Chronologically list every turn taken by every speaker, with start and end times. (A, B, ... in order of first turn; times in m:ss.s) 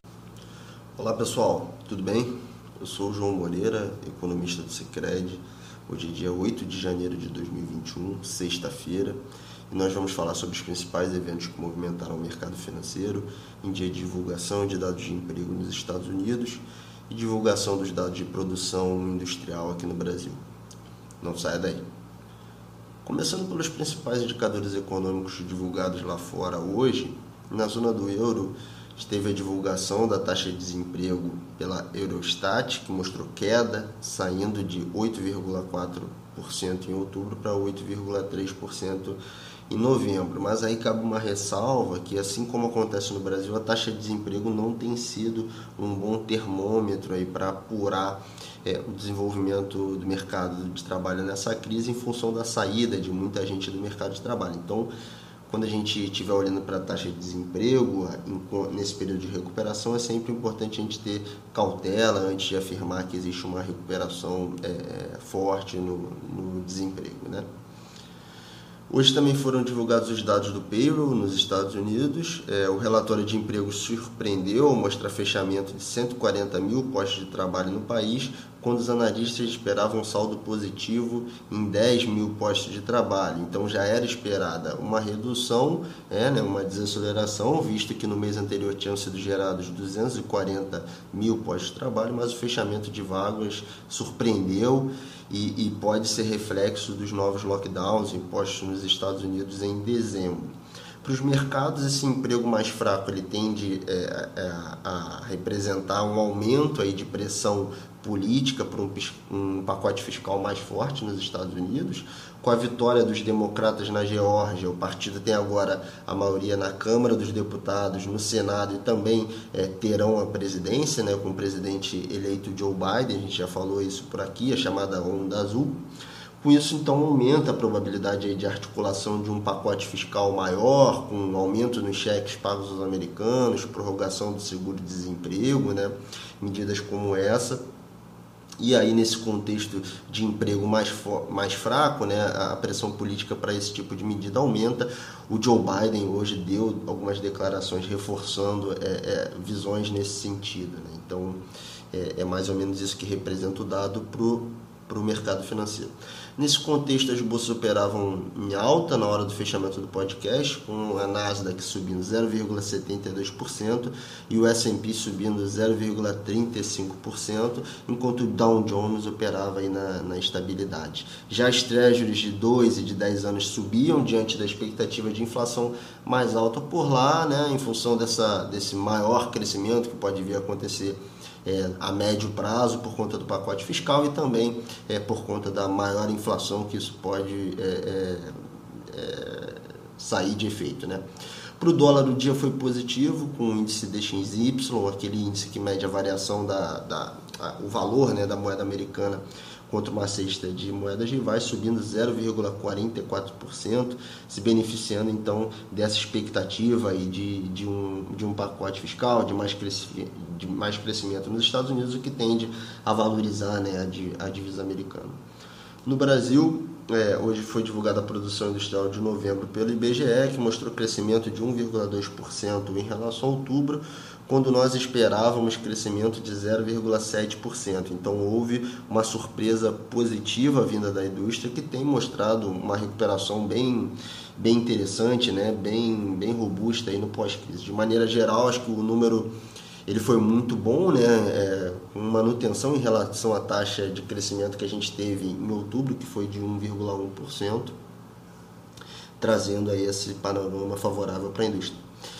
0:01.0-0:09.2 A
0:09.7-0:20.4 A
0:21.2-0:21.8 A
0:23.0-0:54.9 A
0:55.5-1:07.5 A
1:08.9-1:40.5 A
1:41.0-2:05.8 A
2:06.4-2:17.6 A
2:18.6-3:08.3 A
3:08.9-3:11.0 A
3:11.6-3:35.2 A
3:35.9-3:59.3 A
3:59.9-4:07.7 A
4:09.2-4:11.8 A